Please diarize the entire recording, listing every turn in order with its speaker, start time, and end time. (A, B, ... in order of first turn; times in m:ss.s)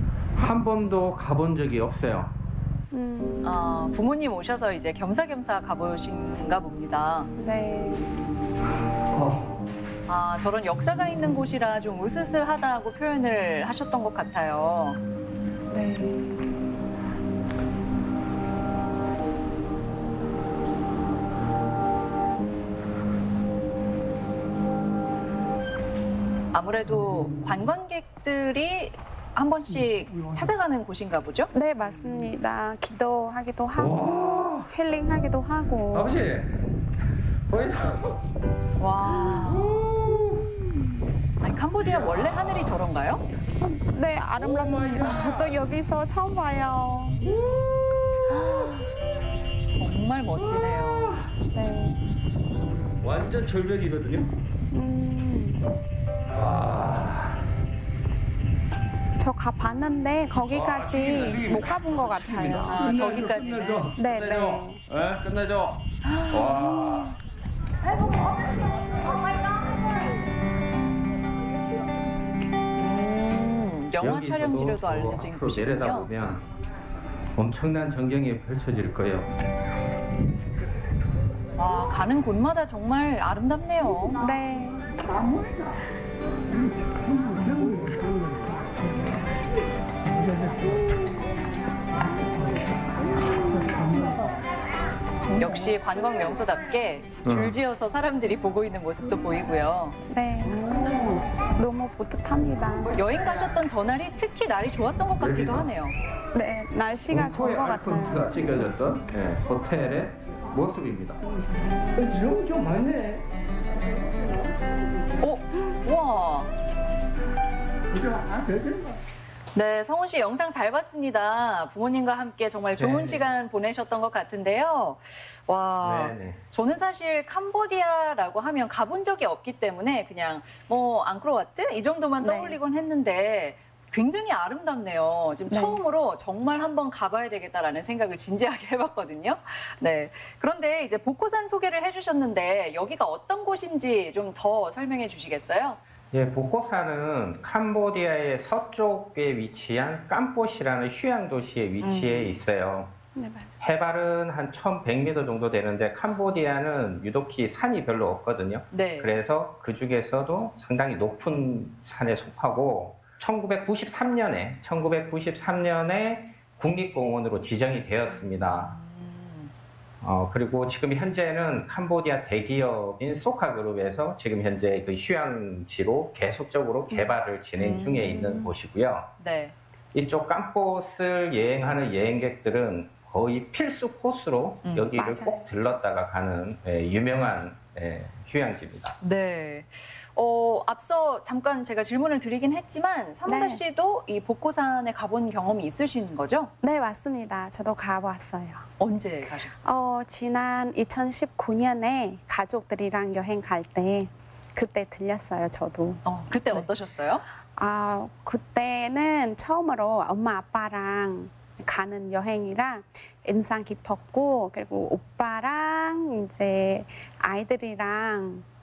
0:00.4-0:02.4 A
0:02.9-0:03.6 B
0:03.4-0:07.3 C
0:07.4-0:08.0 B
0:10.1-0:15.0 C
0:15.7-0:16.4 B
0:26.5-0:31.5 C
0:31.5-0:36.2 B
0:33.8-0:34.7 A
0:35.9-0:36.5 A
0:37.5-0:38.0 A
0:38.8-0:39.8 C
0:39.5-0:40.2 A
0:41.4-0:43.2 C
0:41.9-0:42.2 A
0:43.9-0:47.2 B
0:44.4-0:45.6 A
0:48.3-0:48.9 C
0:49.7-0:51.1 C
0:51.5-0:52.0 B
0:53.0-0:54.3 A
0:54.7-0:55.6 B
0:56.3-0:57.3 A
0:59.2-1:02.9 B
1:00.5-1:07.1 A
1:02.6-1:03.9 C
1:03.9-1:04.8 B
1:06.1-1:06.5 C
1:12.8-1:16.1 C
1:14.0-1:16.5 A
1:17.4-1:19.3 A
1:21.6-1:24.2 C
1:24.2-1:24.9 B
1:35.4-1:40.0 C
1:37.2-1:37.6 A
1:40.1-1:43.0 B
1:42.9-1:46.0 C
1:45.2-1:45.7 A
1:46.3-1:48.6 B
1:47.1-1:51.2 A
1:52.0-1:53.2 A
1:55.2-1:56.5 C
1:59.5-2:25.8 C
2:02.8-2:03.2 A
2:05.8-2:06.4 A
2:12.2-2:12.6 B
2:15.5-2:15.8 B
2:26.1-2:32.9 A
2:31.8-2:32.4 C
2:33.2-2:33.6 B
2:33.6-2:48.8 A
2:38.7-2:39.1 C
2:48.1-2:49.5 C
2:50.0-2:59.1 A
2:57.6-2:58.5 C
2:59.2-2:59.6 C
2:59.9-3:09.0 A
3:04.6-3:04.9 C
3:04.9-3:05.4 B
3:09.0-3:16.5 C
3:13.3-3:13.6 B
3:16.6-3:18.7 B
3:18.8-3:19.7 C
3:19.6-3:26.7 B
3:26.0-3:27.2 C
3:27.6-3:38.5 B